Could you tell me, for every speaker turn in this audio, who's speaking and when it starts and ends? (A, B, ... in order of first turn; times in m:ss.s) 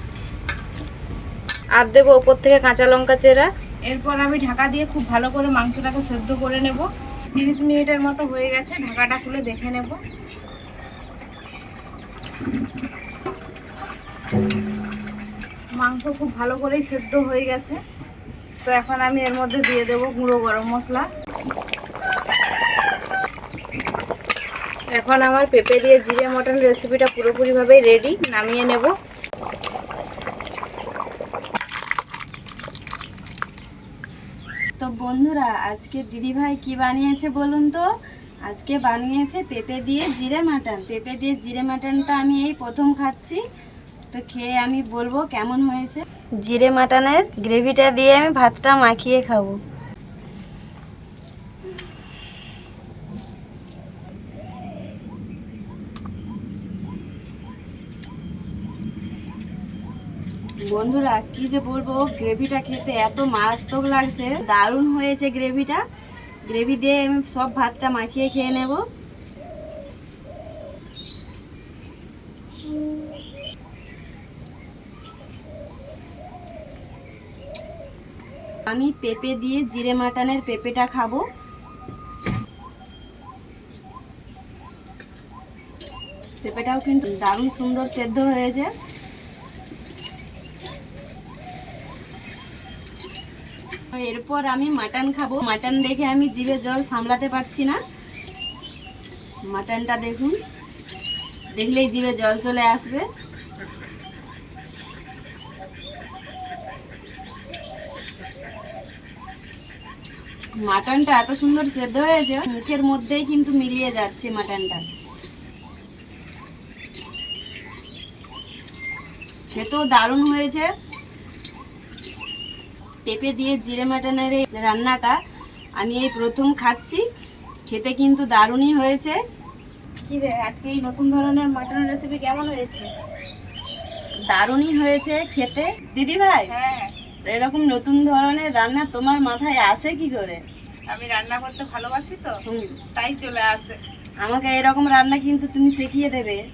0:01.8-0:10.0 A
0:15.8-0:17.8 A
0:18.6-0:21.1 A
0:24.9-0:28.9 A
0:34.8-0:37.8 B
0:38.5-0:43.4 B
0:44.1-0:49.6 B
1:00.7-1:05.8 B
1:06.5-1:08.8 B
1:18.7-1:21.2 B
1:26.4-1:28.7 B
1:33.9-1:37.8 B
1:39.5-1:40.4 B
1:41.5-1:43.0 B
1:50.6-1:54.8 B
1:59.5-2:00.7 B
2:03.0-2:05.2 B
2:05.8-2:07.0 B
2:07.7-2:09.2 B
2:10.0-2:12.9 A
2:14.3-2:16.5 B
2:16.5-2:16.9 A
2:17.2-2:20.4 B
2:20.9-2:22.4 A
2:22.5-2:22.8 B
2:22.9-2:23.8 A
2:24.2-2:26.4 B